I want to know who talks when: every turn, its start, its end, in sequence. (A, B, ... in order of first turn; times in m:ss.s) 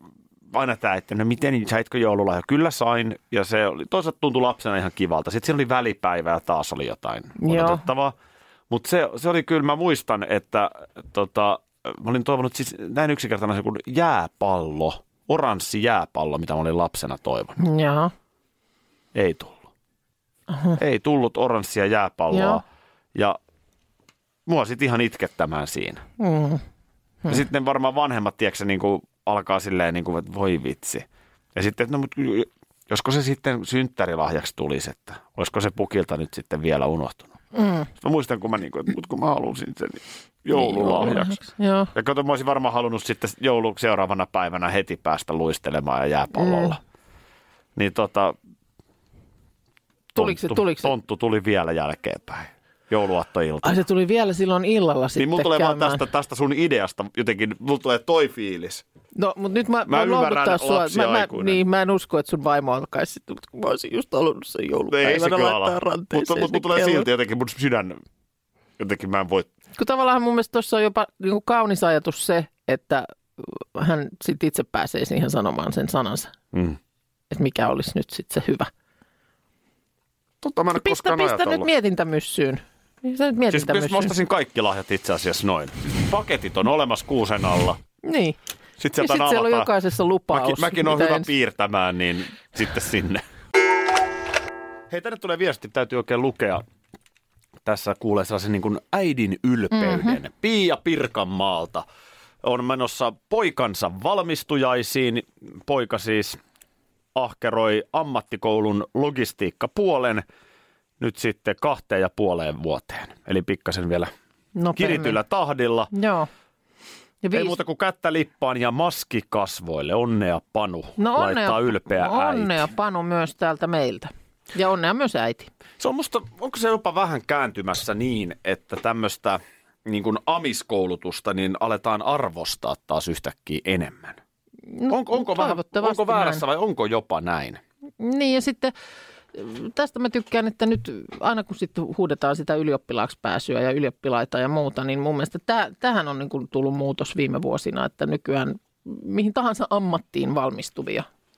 0:00.5-0:08.1 A
0:07.4-0:07.8 B
0:08.7-0:17.6 A
0:17.6-0:18.1 B
0:19.1-0:19.6 A
0:20.5-0:20.8 B
0:20.8-0:22.6 A
0:22.3-0:22.6 B
0:24.4-0:26.0 A
0:26.2-0:26.6 B
0:27.3-0:37.3 A
0:37.5-0:37.9 B
0:37.9-0:41.4 A
0:40.5-0:41.9 B
0:41.9-0:46.8 A
0:46.3-0:46.7 B
0:47.8-0:48.3 A
0:50.1-0:50.9 B
0:50.2-0:53.8 A
0:53.6-0:56.0 B
0:55.2-0:58.8 A
0:59.1-1:07.1 B
0:59.9-1:01.6 A
1:04.9-1:08.0 A
1:08.8-1:09.5 A
1:09.8-1:16.3 B
1:16.5-1:16.8 A
1:17.3-1:18.7 B
1:20.4-1:21.7 A
1:20.8-1:24.1 B
1:23.5-1:27.8 A
1:28.0-1:28.4 B
1:28.8-1:29.7 A
1:29.0-1:31.3 B
1:30.3-1:33.2 A
1:34.9-1:36.6 A
1:37.6-1:41.8 A
1:39.7-1:40.2 B
1:42.4-1:46.4 A
1:47.1-1:50.2 A
1:51.0-1:54.1 A
1:54.5-1:55.2 B
1:54.8-1:55.9 A
1:55.9-1:56.3 B
1:57.2-1:57.6 B
1:57.3-2:02.7 A
2:01.0-2:05.5 B
2:05.8-2:14.2 A
2:14.7-2:16.4 B
2:14.9-2:17.6 A
2:18.0-2:18.7 B
2:19.3-2:31.1 B